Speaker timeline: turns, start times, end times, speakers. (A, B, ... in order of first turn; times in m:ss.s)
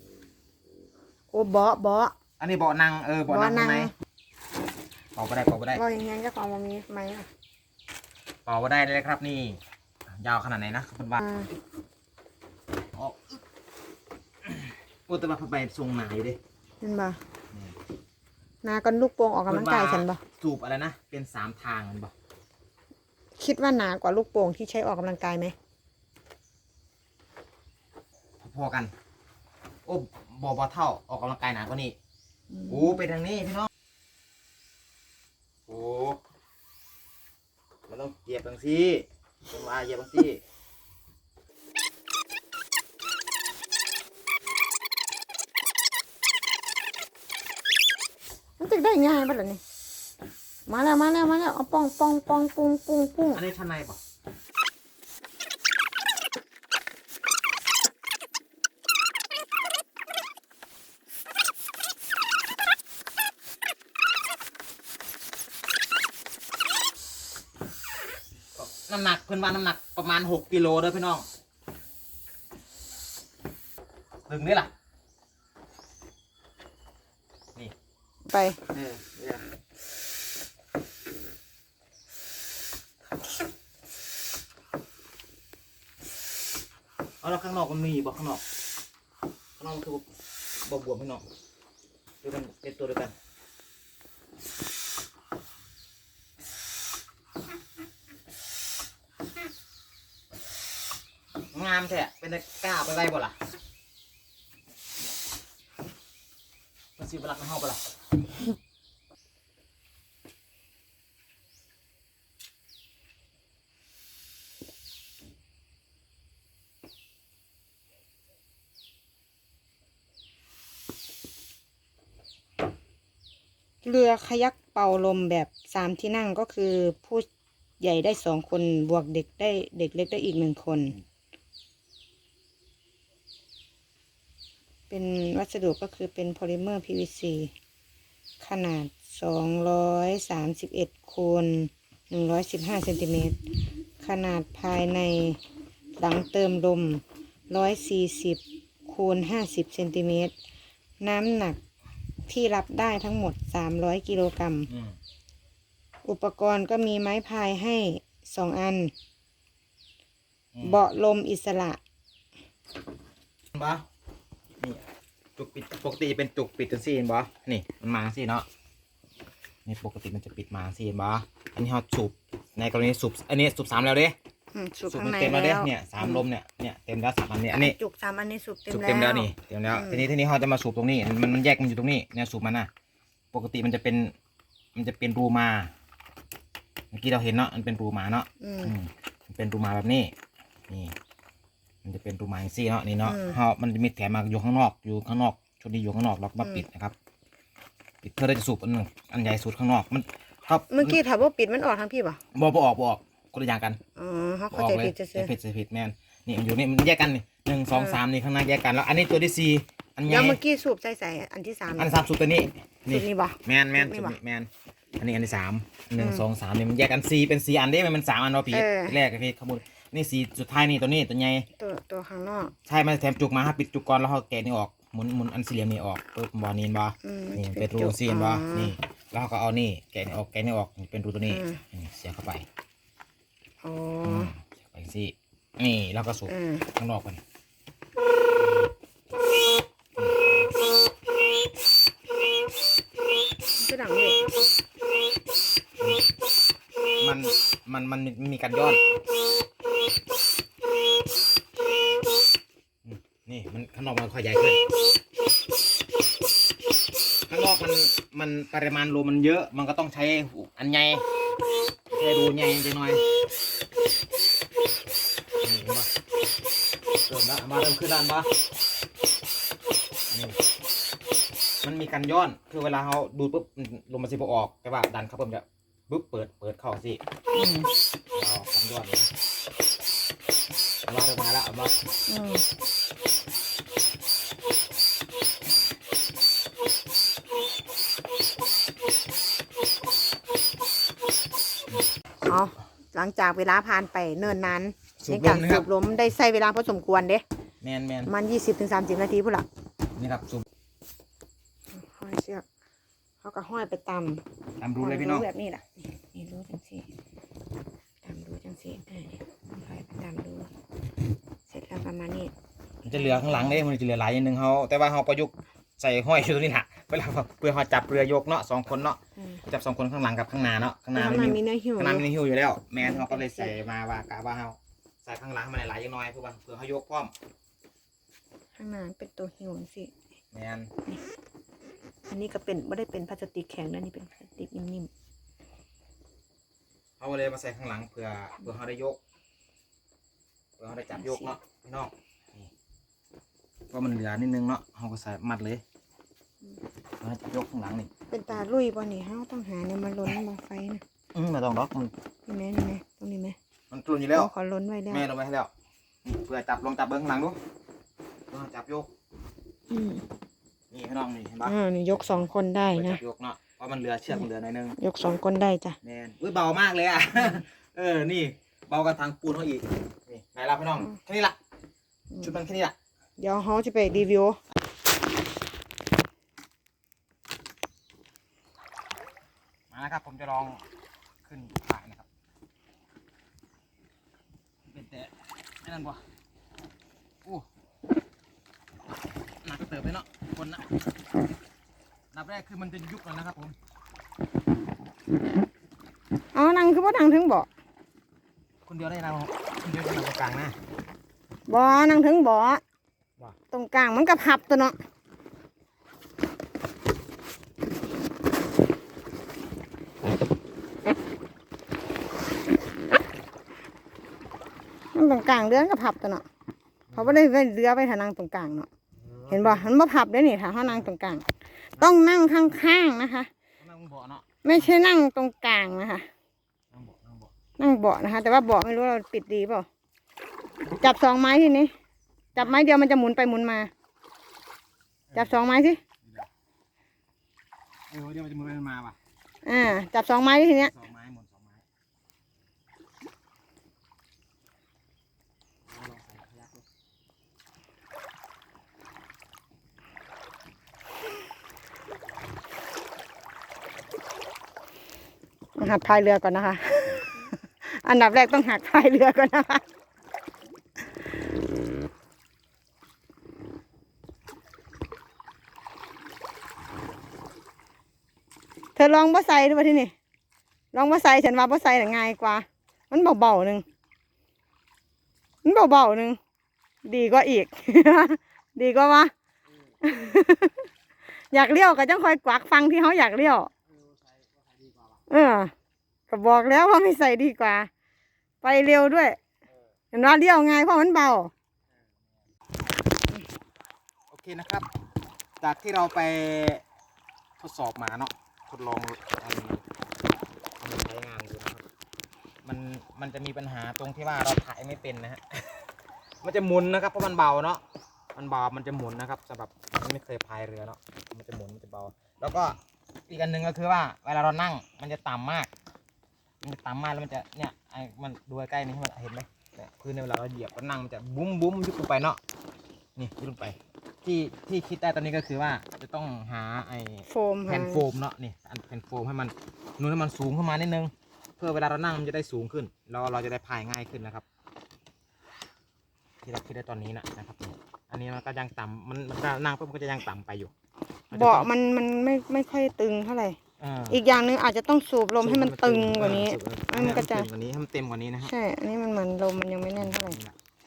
0:01.3-0:02.2 A
0:02.4-0:03.9 B
0:03.3-0:03.9 A
0:05.2-0:05.8 B
0:05.7-0:07.3 A
0:08.5-0:09.6 B
0:10.1-0:11.2 B
0:11.2-0:11.5 A
0:12.9-0:13.4 B
0:14.4-0:16.4 B
0:16.8-0:17.2 A
0:18.6-0:20.2 A
0:19.5-0:22.1 B
0:23.4-0:25.6 A
0:28.4-0:28.9 B
0:29.9-0:32.0 B
0:32.7-0:33.7 B
0:35.7-0:36.2 B
0:37.9-0:40.4 B
0:48.6-0:49.6 A
0:50.7-0:53.4 A
0:53.3-0:54.0 B
1:08.6-1:11.3 B
1:14.3-1:14.7 B
1:18.3-1:18.6 A
1:18.7-1:19.4 B
1:27.2-1:28.4 B
1:29.6-1:30.0 B
1:30.6-1:31.2 B
1:32.2-1:33.1 B
1:41.5-1:43.4 B
1:47.0-1:47.8 B
2:03.8-2:07.3 A
2:07.8-2:11.0 A
2:14.9-2:17.5 A
2:18.4-2:23.4 A
2:24.0-2:25.4 A
2:26.0-2:30.3 A
2:31.0-2:31.6 A
2:32.3-2:34.7 A
2:34.7-2:35.0 B
2:36.0-2:38.9 A
2:40.5-2:40.8 B
2:40.6-2:41.8 A
2:43.5-2:43.8 B
2:44.6-2:44.8 B
2:45.4-2:48.5 B
2:49.7-2:54.2 B
2:54.5-2:56.2 A
2:54.9-2:57.8 B
2:57.5-3:00.0 A
2:58.7-3:02.7 B
3:03.3-3:04.1 B
3:04.8-3:05.7 B
3:06.9-3:10.1 B
3:08.4-3:08.7 A
3:10.7-3:11.0 B
3:11.8-3:16.9 B
3:13.0-3:13.4 A
3:18.0-3:21.0 B
3:20.7-3:22.2 A
3:22.3-3:23.8 B
3:24.0-3:25.3 A
3:24.5-3:30.4 B
3:27.7-3:28.0 A
3:30.1-3:32.0 A
3:31.8-3:41.5 B
3:32.9-3:34.2 A
3:36.0-3:36.2 A
3:38.5-3:39.0 A
3:41.6-3:42.5 A
3:42.7-3:52.5 B
3:47.0-3:48.7 A
3:51.3-3:51.6 A
3:53.6-3:54.3 A
3:54.0-3:57.2 B
3:56.3-3:56.7 A
4:03.6-4:04.2 A
4:07.0-4:08.8 B
4:12.8-4:14.6 B
4:17.3-4:21.0 B
4:21.9-4:23.0 B
4:25.4-4:25.9 B
4:27.1-4:28.3 B
4:30.1-4:30.4 B
4:31.6-4:37.0 B
4:37.3-4:37.7 A
4:38.1-4:39.1 B
4:40.9-4:41.7 B
4:42.1-4:42.4 A
4:52.3-4:57.2 A
4:55.0-4:55.7 B
4:57.6-4:58.1 B
4:58.1-4:59.5 A
5:00.0-5:00.4 B
5:01.7-5:02.4 A
5:03.2-5:04.2 A
5:04.6-5:05.3 B
5:04.8-5:06.9 A
5:08.0-5:10.5 A
5:11.5-5:12.3 A
5:12.8-5:27.1 B
5:13.0-5:13.2 A
5:21.0-5:22.1 A
5:22.8-5:23.6 A
5:28.6-5:29.9 A
5:30.3-5:30.7 B
5:32.1-5:34.9 A
5:37.0-5:39.0 B
5:40.6-5:42.5 B
5:41.0-5:41.3 A
5:43.7-5:45.6 B
5:47.0-5:47.9 B
5:48.1-5:50.8 A
5:51.1-5:51.9 B
5:52.3-5:53.4 A
5:53.7-5:54.3 B
5:54.2-5:55.0 A
5:54.9-5:55.5 B
5:56.0-5:57.4 B
5:58.3-5:58.9 B
5:59.7-6:00.0 A
6:00.7-6:04.8 B
6:01.4-6:03.0 A
6:04.8-6:05.8 A
6:05.8-6:11.4 B
6:12.2-6:12.8 B
6:13.2-6:14.4 A
6:19.7-6:20.6 B
6:21.2-6:22.1 B
6:24.7-6:26.0 B
6:29.4-6:30.7 B
6:32.1-6:33.6 B
6:36.3-6:37.5 A
6:38.7-6:40.6 B
6:41.5-6:42.6 A
6:43.5-6:44.8 A
6:54.9-6:56.2 A
6:56.9-6:57.2 B
6:57.0-6:58.7 A
6:59.0-6:59.7 B
6:59.3-7:01.2 A
7:01.8-7:03.3 A
7:03.6-7:04.7 B
7:04.4-7:06.1 A
7:06.7-7:07.3 B
7:07.6-7:09.7 A
7:10.8-7:11.7 A
7:12.4-7:13.7 A
7:15.1-7:15.4 B
7:15.2-7:15.8 A
7:16.0-7:16.3 B
7:17.9-7:19.0 B
7:19.4-7:20.7 A
7:20.6-7:21.6 B
7:25.7-7:26.6 B
7:35.6-7:39.6 A
7:48.8-7:49.9 A
7:50.7-7:53.6 A
7:55.4-7:56.2 A
7:56.8-7:59.1 A
7:59.8-8:00.7 A
8:01.3-8:03.5 A
8:05.1-8:05.5 A
8:06.1-8:07.7 A
8:08.4-8:09.2 A
8:09.9-8:11.3 A
8:14.1-8:14.7 B
8:15.4-8:16.6 B
8:17.4-8:19.6 B
8:20.6-8:21.6 B
8:22.4-8:25.7 B
8:26.2-8:27.6 B
8:28.2-8:35.5 B
8:36.4-8:42.2 B
8:43.0-8:54.2 B
8:47.1-8:47.8 A
8:56.2-9:00.5 B
9:01.1-9:01.5 B
9:01.1-9:03.4 A
9:03.6-9:04.0 B
9:03.9-9:07.3 A
9:05.2-9:08.3 B
9:08.2-9:10.2 A
9:09.8-9:10.4 B